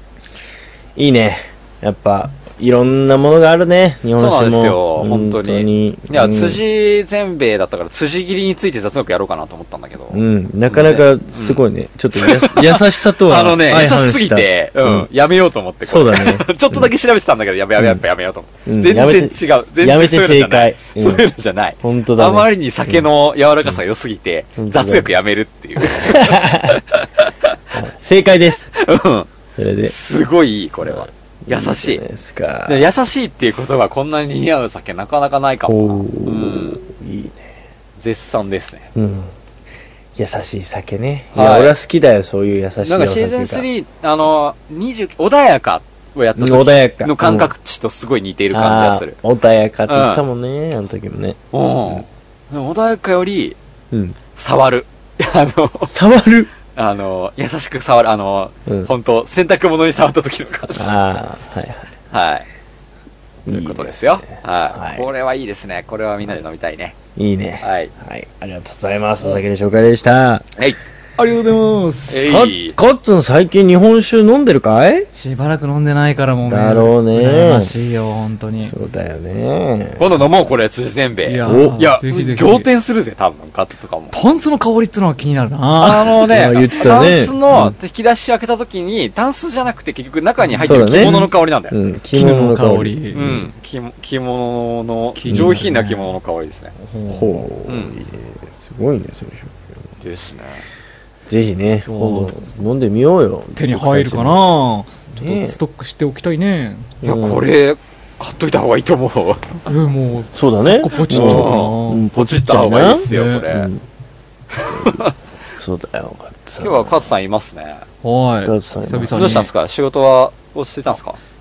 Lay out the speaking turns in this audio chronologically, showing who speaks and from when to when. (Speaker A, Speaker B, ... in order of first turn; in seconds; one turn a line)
Speaker A: 0.9-6.6
Speaker B: 4.2-27.7
Speaker A: 10.1-15.1
Speaker A: 15.8-16.9
Speaker A: 17.8-18.0
Speaker A: 18.6-21.2
Speaker A: 21.8-23.0
Speaker A: 24.6-25.1
Speaker A: 25.8-26.8
Speaker A: 27.7-28.7
Speaker B: 28.7-29.3
Speaker A: 29.6-29.9
Speaker B: 29.8-32.0
Speaker A: 30.8-32.9
Speaker B: 32.7-36.8
Speaker A: 35.6-37.5
Speaker B: 38.0-38.9
Speaker A: 38.9-39.3
Speaker A: 40.1-43.6
Speaker B: 41.3-41.7
Speaker B: 42.8-49.2
Speaker A: 46.4-47.5
Speaker A: 48.5-51.4
Speaker B: 49.9-50.2
Speaker B: 51.5-53.6
Speaker A: 53.9-54.1
Speaker B: 54.3-55.9
Speaker A: 55.9-56.5
Speaker B: 56.7-60.9
Speaker A: 60.8-61.9
Speaker B: 62.1-62.5
Speaker A: 63.5-65.1
Speaker B: 63.5-66.9
Speaker A: 67.2-70.5
Speaker B: 67.6-67.9
Speaker C: 71.2-72.2
Speaker B: 72.1-72.8
Speaker A: 72.2-75.1
Speaker C: 75.1-78.7
Speaker A: 76.5-77.7
Speaker A: 78.6-80.2
Speaker B: 80.0-84.1
Speaker C: 81.2-82.7
Speaker A: 81.4-81.8
Speaker C: 84.1-86.3
Speaker B: 85.8-91.7
Speaker A: 86.3-87.7
Speaker C: 90.5-91.3
Speaker A: 90.6-93.4
Speaker C: 92.1-93.3
Speaker B: 93.1-96.7
Speaker C: 95.1-96.1
Speaker A: 95.3-95.6
Speaker A: 97.0-99.6
Speaker B: 97.7-97.9
Speaker B: 100.0-100.6
Speaker A: 101.3-104.4
Speaker C: 101.9-102.5
Speaker C: 103.5-106.9
Speaker A: 105.2-105.6
Speaker A: 107.0-107.4
Speaker B: 107.0-109.6
Speaker C: 109.7-112.0
Speaker A: 110.3-113.8
Speaker B: 111.0-113.7
Speaker C: 113.1-113.5
Speaker B: 114.5-115.1
Speaker A: 114.7-115.0
Speaker A: 115.6-116.9
Speaker B: 116.6-117.8
Speaker C: 118.0-119.5
Speaker A: 118.4-119.5
Speaker B: 119.1-121.2